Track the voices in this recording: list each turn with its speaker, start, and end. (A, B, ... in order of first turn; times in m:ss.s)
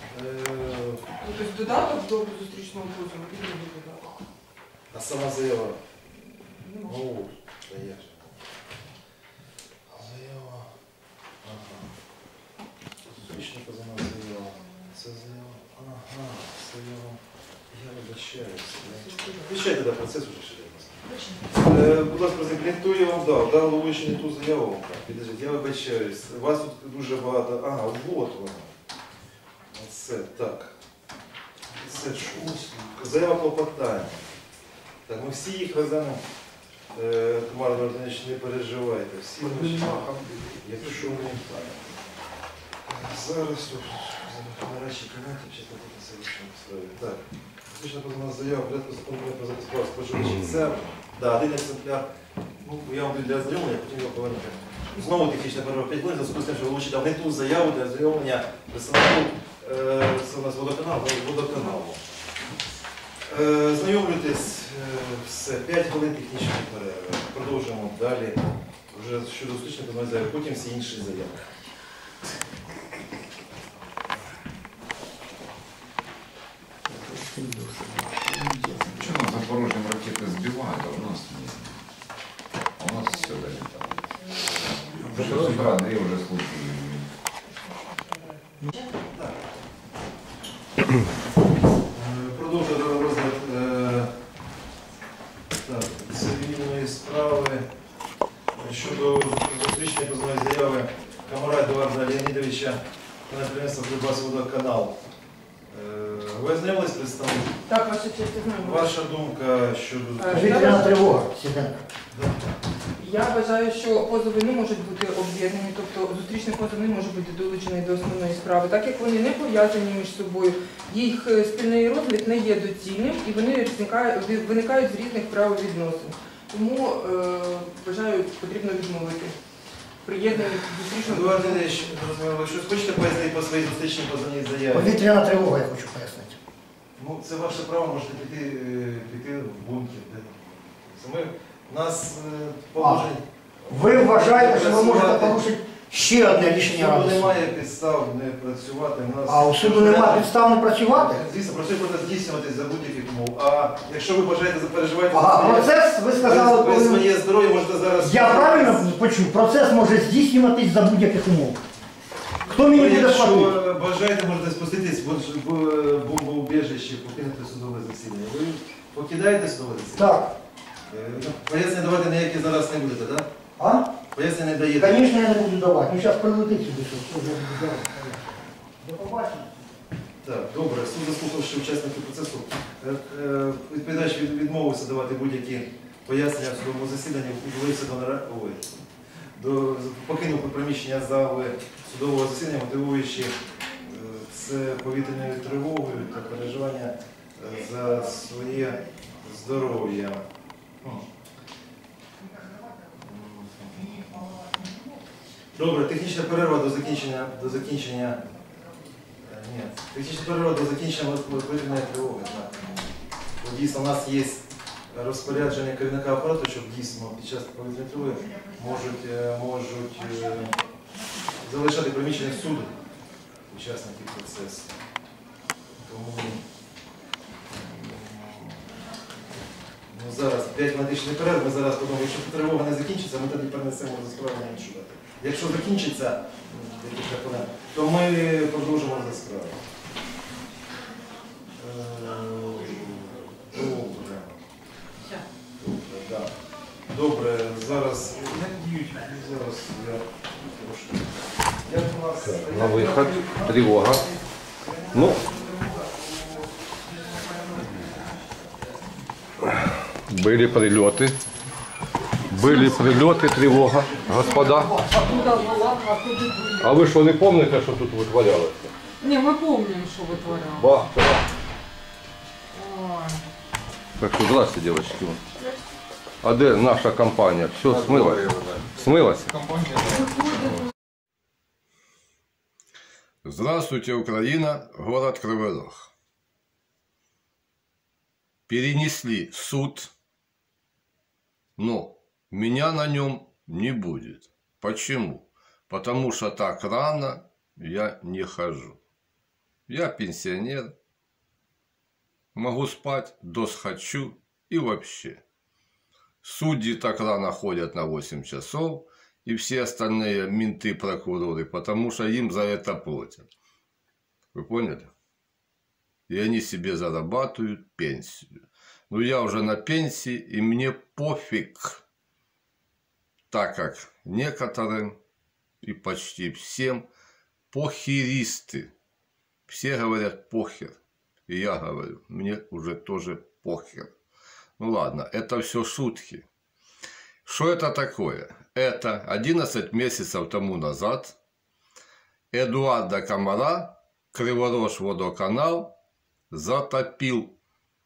0:00.1-0:01.0 A
0:01.2-0:04.1 B
0:04.9-0:05.8 A
0:06.6-0:07.0 B
0:06.9-0:08.3 A
0:09.9-0:10.7 A
0:11.4-0:11.9 A
0:13.1-0:17.2 A
0:17.7-0:21.0 A
0:19.0-0:19.5 B
0:21.5-0:28.7 A
0:29.7-0:30.7 A
0:31.8-0:34.2 A
0:35.1-0:36.2 A
0:36.9-0:41.8 A
0:42.9-0:52.1 A
0:52.6-1:02.0 A
1:03.3-1:08.4 A
1:08.9-1:11.4 A
1:18.8-1:21.8 C
1:22.8-1:27.1 C
1:29.1-1:29.4 A
1:31.9-1:34.1 A
1:35.6-1:37.7 A
1:38.6-1:45.0 A
1:45.7-1:47.5 A
1:47.7-1:48.9 B
1:48.6-1:51.1 A
1:50.2-1:50.9 B
1:50.3-1:51.8 D
1:52.1-1:52.6 A
1:53.0-2:09.4 B
2:10.0-2:11.8 B
2:11.0-2:15.0 A
2:14.7-2:16.4 D
2:17.0-2:25.4 A
2:22.8-2:23.1 D
2:23.7-2:27.4 D
2:26.4-2:38.9 A
2:29.3-2:31.2 D
2:35.1-2:37.1 D
2:38.0-2:41.6 D
2:42.5-2:43.6 D
2:42.5-2:50.2 A
2:49.9-2:50.3 D
2:50.9-2:53.3 A
2:53.6-2:53.9 D
2:54.1-2:55.1 A
2:54.8-2:58.3 D
2:58.8-2:59.5 D
3:00.2-3:08.7 A
3:09.4-3:20.2 A
3:23.0-3:24.1 A
3:25.6-3:28.2 A
3:29.2-3:32.8 A
3:33.4-3:40.5 A
3:41.4-3:42.7 A
3:43.5-3:44.7 A
3:45.8-3:46.4 A
3:47.5-3:48.6 A
3:49.9-3:59.6 A
4:01.6-4:04.4 A
4:05.6-4:06.3 A
4:06.9-4:14.1 A
4:12.2-4:14.0 E
4:14.6-4:15.5 A
4:14.9-4:15.2 E
4:20.1-4:21.2 E
4:22.3-4:24.9 E
4:22.4-4:22.7 F
4:24.9-4:26.7 F
4:26.6-4:28.7 E
4:29.0-4:30.9 F
4:30.1-4:31.3 E
4:32.6-4:33.2 F
4:34.0-4:35.2 E
4:36.2-4:39.3 E
4:39.9-4:40.5 F
4:40.3-4:40.6 E
4:43.2-4:45.9 E
4:48.5-4:49.9 E
4:51.6-4:58.8 E
4:59.7-5:00.7 E
5:02.4-5:05.2 E
5:06.2-5:13.3 E
5:14.3-5:14.9 E
5:16.1-5:18.3 E
5:18.9-5:21.8 E
5:23.3-5:25.0 E
5:25.6-5:26.9 E
5:27.5-5:28.7 E
5:29.5-5:30.8 E
5:31.3-5:33.9 E
5:34.6-5:36.2 E
5:37.2-5:41.2 E
5:42.3-5:45.8 E
5:46.3-5:47.4 E